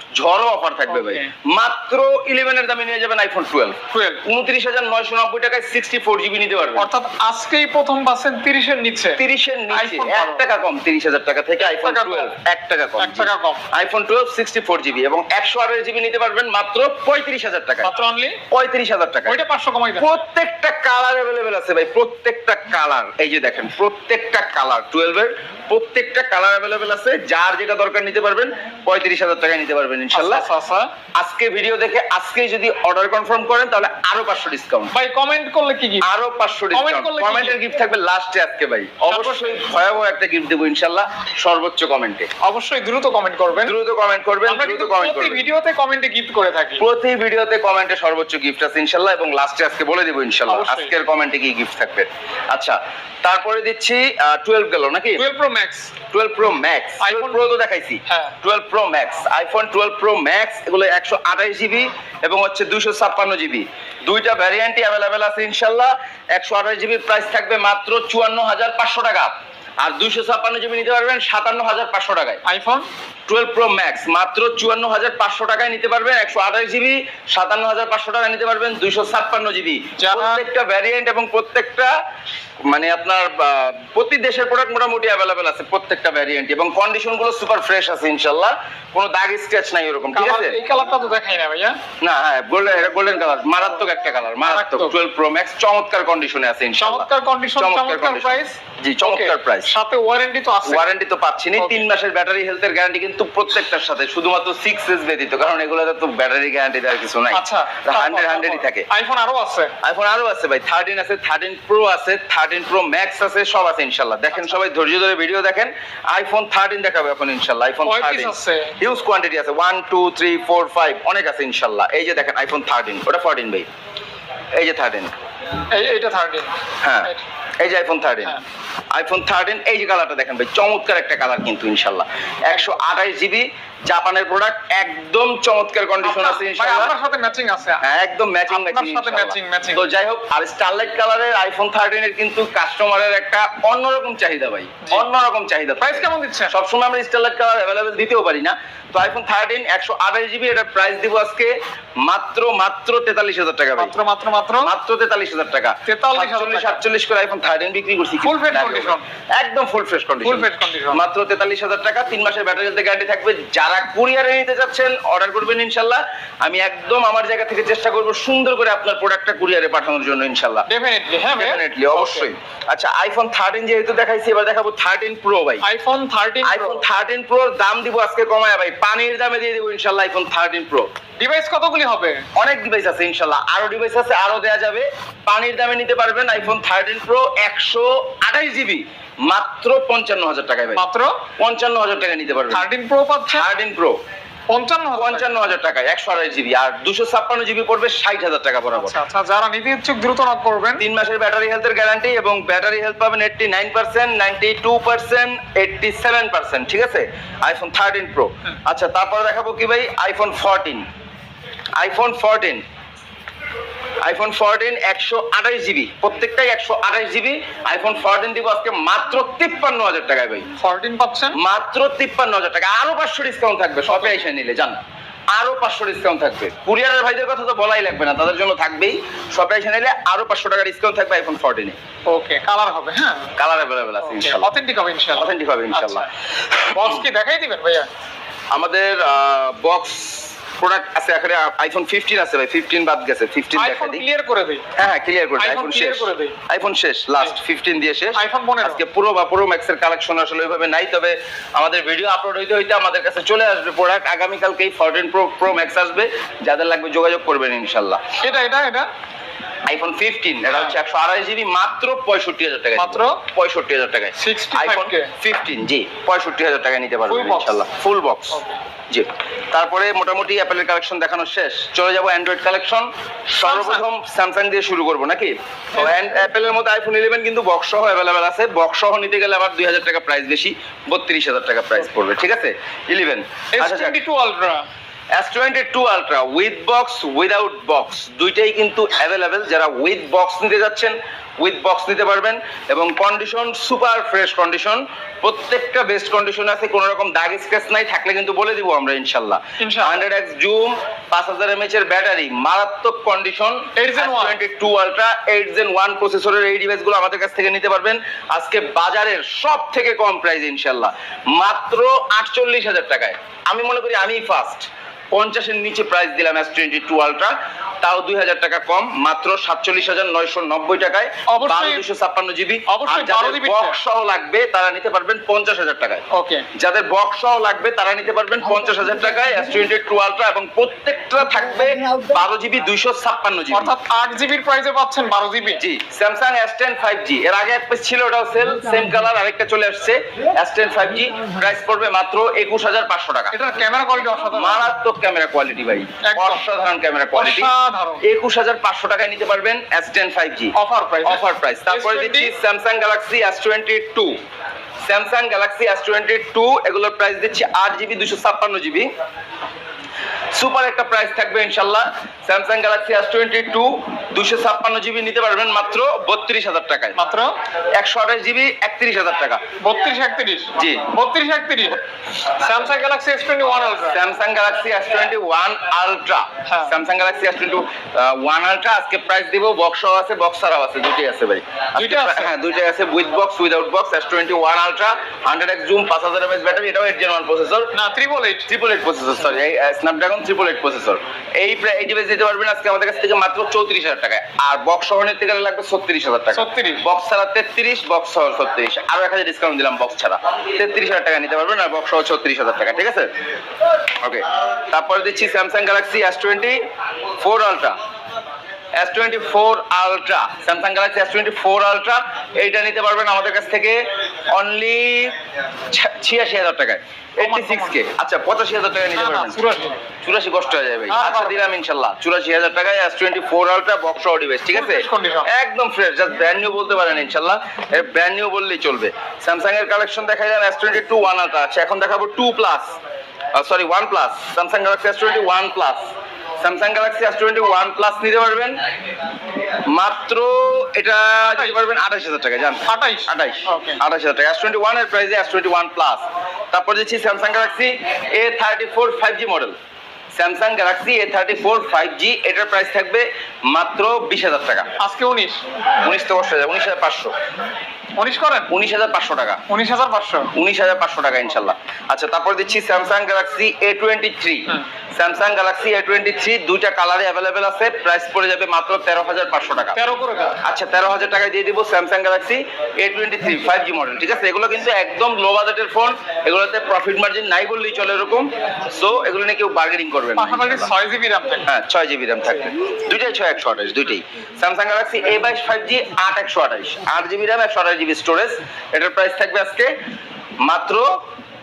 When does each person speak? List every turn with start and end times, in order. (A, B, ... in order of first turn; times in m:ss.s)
0:00.2-0:06.9 A
0:00.9-0:01.3 B
0:03.9-0:04.2 B
0:06.8-0:09.2 B
0:09.2-0:17.9 A
0:09.7-0:10.4 B
0:11.6-0:12.4 B
0:13.0-0:13.6 B
0:17.8-0:18.4 B
0:18.5-0:19.4 A
0:19.3-0:20.1 B
0:20.0-0:30.4 A
0:30.1-0:30.9 B
0:31.2-0:34.9 A
0:34.9-0:36.1 B
0:36.0-0:42.3 A
0:36.7-0:37.6 B
0:39.1-0:39.7 B
0:42.4-0:43.8 B
0:43.6-0:45.4 A
0:44.5-0:46.8 B
0:46.8-0:55.2 A
0:50.5-0:50.9 B
0:55.2-0:55.9 B
0:56.1-1:12.4 A
0:57.0-0:57.4 B
0:58.1-0:58.4 B
1:12.5-1:12.9 B
1:13.3-1:21.9 A
1:20.0-1:20.4 B
1:22.7-1:30.6 A
1:30.1-1:31.8 B
1:32.0-1:39.7 A
1:34.4-1:34.9 B
1:36.8-1:40.9 B
1:40.6-1:48.9 A
1:41.6-1:41.8 B
1:47.3-1:49.7 B
1:49.8-2:03.7 A
1:57.8-1:58.8 B
2:04.6-2:05.1 A
2:05.7-2:06.5 B
2:06.8-2:08.4 A
2:08.9-2:16.9 A
2:16.0-2:17.8 B
2:17.8-2:31.5 A
2:18.5-2:19.8 B
2:25.8-2:26.5 B
2:32.0-2:33.9 A
2:33.8-2:34.7 B
2:34.6-2:50.7 A
2:35.9-2:36.8 B
2:38.2-2:39.0 B
2:40.2-2:41.0 B
2:50.7-2:52.3 B
2:51.3-2:55.6 A
2:55.6-2:56.8 B
2:56.4-3:00.9 A
3:01.2-3:02.2 B
3:02.4-3:10.8 A
3:10.7-3:11.2 B
3:11.4-3:12.7 A
3:12.5-3:13.5 B
3:13.3-3:14.0 A
3:14.5-3:15.3 B
3:15.0-3:19.0 A
3:18.8-3:20.8 B
3:20.8-3:30.9 A
3:31.8-3:32.6 A
3:34.0-3:40.5 A
3:40.6-3:41.4 B
3:41.3-3:44.8 A
3:45.3-3:51.8 A
3:52.1-3:53.3 B
3:53.4-3:54.5 A
3:54.0-3:56.1 B
3:55.2-3:56.8 A
3:56.7-3:57.9 B
3:58.5-4:04.0 A
4:03.5-4:04.6 B
4:04.8-4:18.0 A
4:05.4-4:06.4 B
4:08.2-4:08.8 B
4:18.2-4:18.9 B
4:19.7-4:44.0 A
4:22.8-4:23.2 B
4:24.2-4:25.1 B
4:27.1-4:27.6 B
4:28.3-4:28.6 B
4:33.3-4:33.8 B
4:43.5-4:44.7 B
4:45.2-5:26.0 A
4:59.6-5:00.0 B
5:03.8-5:04.4 B
5:21.3-5:21.9 B
5:22.7-5:23.8 B
5:26.1-5:26.5 B
5:26.6-5:33.7 A
5:33.5-5:35.6 B
5:35.6-5:43.4 A
5:43.3-5:44.7 B
5:44.3-5:47.5 A
5:46.0-5:46.4 B
5:47.2-5:48.0 B
5:48.0-5:54.2 A
5:50.6-5:52.3 B
5:54.9-5:58.9 A
6:00.4-6:07.0 A
6:07.0-6:07.4 B
6:07.8-6:09.4 A
6:09.6-6:14.0 B
6:10.6-6:10.9 A
6:13.8-6:27.7 A
6:16.5-6:16.8 B
6:21.8-6:22.3 B
6:27.7-6:28.5 B
6:28.5-6:43.1 A
6:36.3-6:36.8 B
6:44.0-6:46.6 A
6:47.2-6:47.8 A
6:48.8-6:55.2 A
6:55.7-6:59.4 A
6:57.2-6:57.8 B
6:59.0-6:59.8 B
7:00.0-7:12.8 A
7:00.9-7:01.5 B
7:04.5-7:05.3 B
7:13.4-7:15.9 A
7:16.4-7:18.6 A
7:19.6-7:29.6 A
7:21.2-7:21.6 B
7:22.7-7:23.8 B
7:30.2-7:34.7 A
7:34.8-7:35.4 B
7:35.8-7:37.1 A
7:38.0-7:38.5 B
7:38.5-7:39.4 A
7:39.5-7:40.3 B
7:40.3-7:49.8 A
7:49.8-7:50.4 B
7:50.4-8:00.7 A
8:00.2-8:01.5 B
8:01.5-8:09.7 A
8:10.4-8:11.0 A